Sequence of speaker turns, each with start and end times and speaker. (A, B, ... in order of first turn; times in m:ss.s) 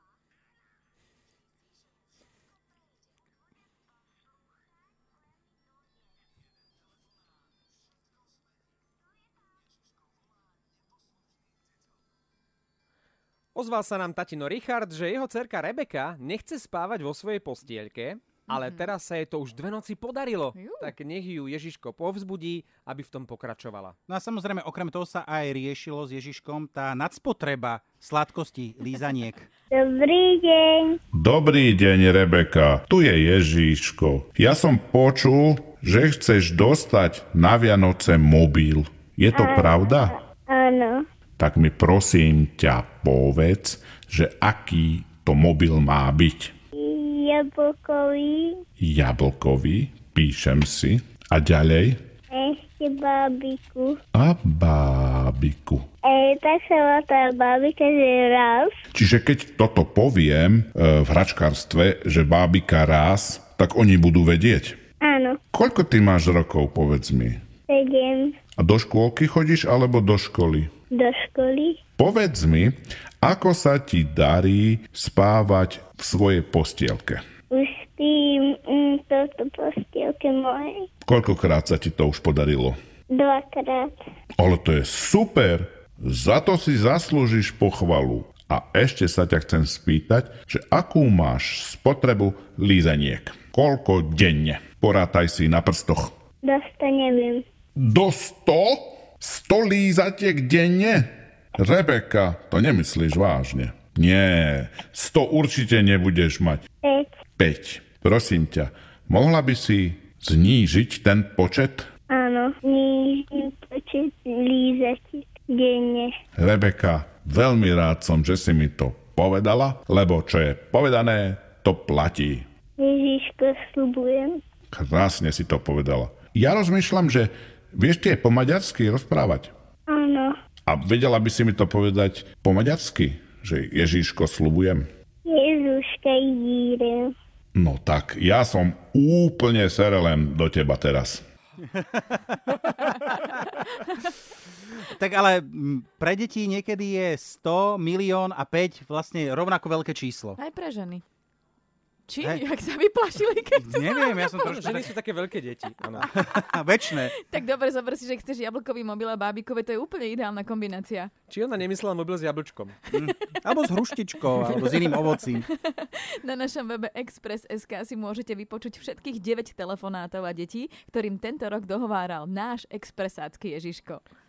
0:13.6-0:24.0 A
0:18.5-0:18.9 B
0:20.6-0:20.9 B
0:24.1-0:29.5 C
0:29.7-0:31.0 D
0:31.1-0:40.2 E
0:39.4-0:41.0 D
0:41.4-0:46.5 E
0:46.8-0:48.6 D
0:48.8-0:52.0 E
0:52.3-0:54.0 D
0:54.1-0:55.8 E
0:56.0-0:58.7 D
0:58.9-1:04.8 E
1:05.0-1:05.4 D
1:05.5-1:07.4 E
1:07.7-1:08.4 D
1:08.6-1:10.7 E
1:10.9-1:11.8 D
1:12.0-1:17.2 E
1:17.5-1:20.9 D
1:21.0-1:22.8 E
1:23.1-1:23.9 D
1:24.4-1:36.1 E
1:36.4-1:37.4 D
1:37.8-1:46.6 E
1:46.8-1:47.2 D
1:47.4-1:51.9 E
1:52.1-1:56.1 D
1:56.4-2:02.5 E
2:02.8-2:04.4 D
2:04.7-2:09.5 E
2:09.9-2:10.3 D
2:10.7-2:14.8 E
2:15.3-2:17.1 D
2:17.6-2:21.2 E
2:21.6-2:22.7 C
2:24.8-2:30.4 C
2:30.4-2:31.0 B
2:32.1-2:34.4 B
2:33.6-2:34.9 C
2:34.4-2:36.1 A
2:36.0-2:37.1 C
2:37.0-2:41.1 B
2:41.3-2:42.8 A
2:42.9-2:45.5 C
2:44.3-2:54.0 B